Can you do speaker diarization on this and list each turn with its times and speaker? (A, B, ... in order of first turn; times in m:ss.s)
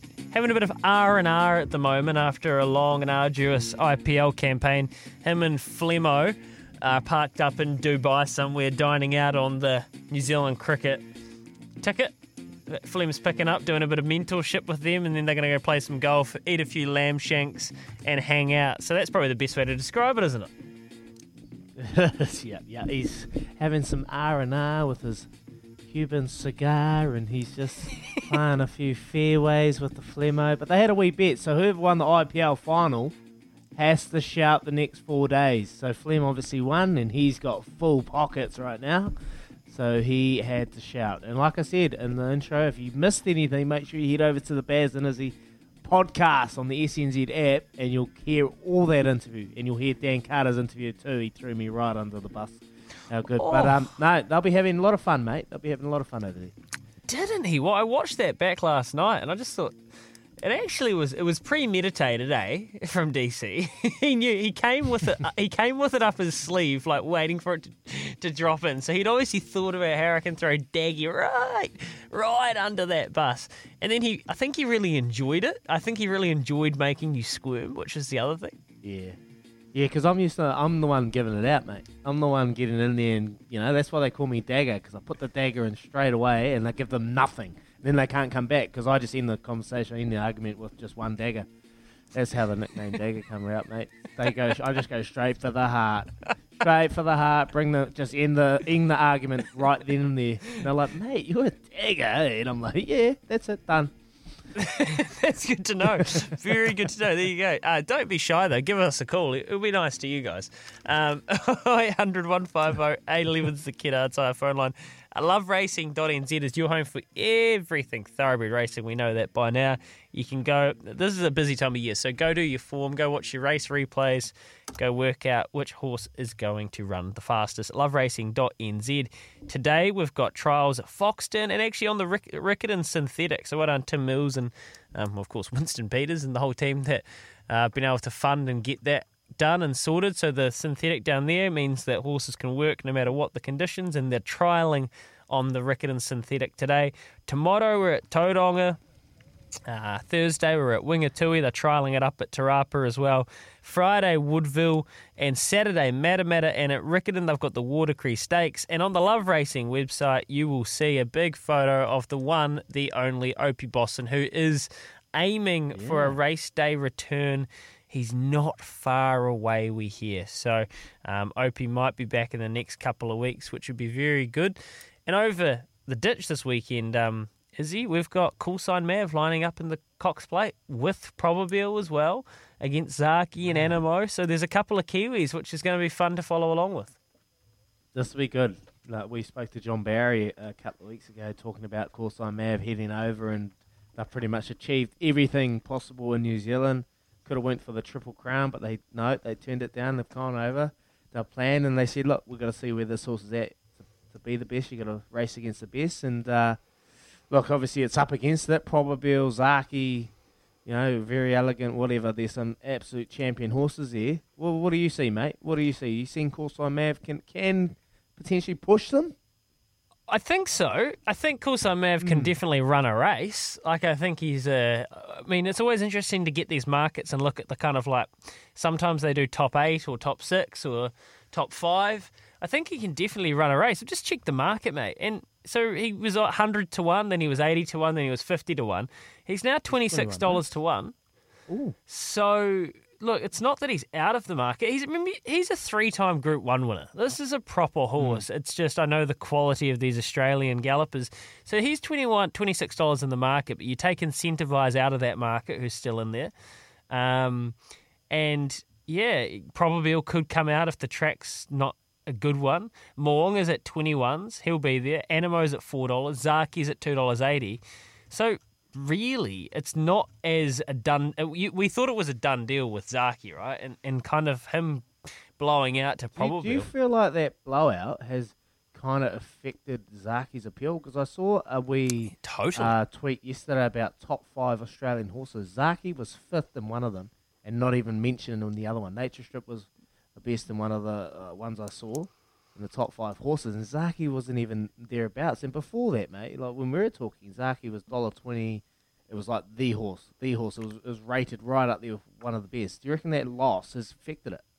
0:00.3-0:11.0 A
0:11.8-0:12.1 A
0:12.7-0:20.5 A
0:21.8-0:25.3 B
0:25.9-0:33.1 B
0:33.7-0:39.1 B
0:39.7-0:56.5 B
0:53.4-0:53.9 A
0:57.1-0:59.7 A
1:00.4-1:18.6 A
1:18.8-1:19.2 B
1:19.7-1:31.5 B
1:32.1-1:43.9 B
1:44.6-2:28.8 A
2:29.7-3:07.0 A
2:45.7-2:46.2 B
3:03.4-3:03.7 B
3:07.9-3:26.6 B
3:27.3-3:30.1 B
3:30.6-3:39.1 B
3:40.1-4:00.9 A
3:42.0-3:42.3 B
3:59.7-4:00.4 B
4:01.5-4:01.8 B
4:01.9-4:16.3 A
4:08.0-4:08.2 B
4:16.9-4:17.6 A
4:18.1-4:34.8 A
4:35.4-4:36.7 A
4:36.2-5:04.4 B
4:42.2-4:42.8 A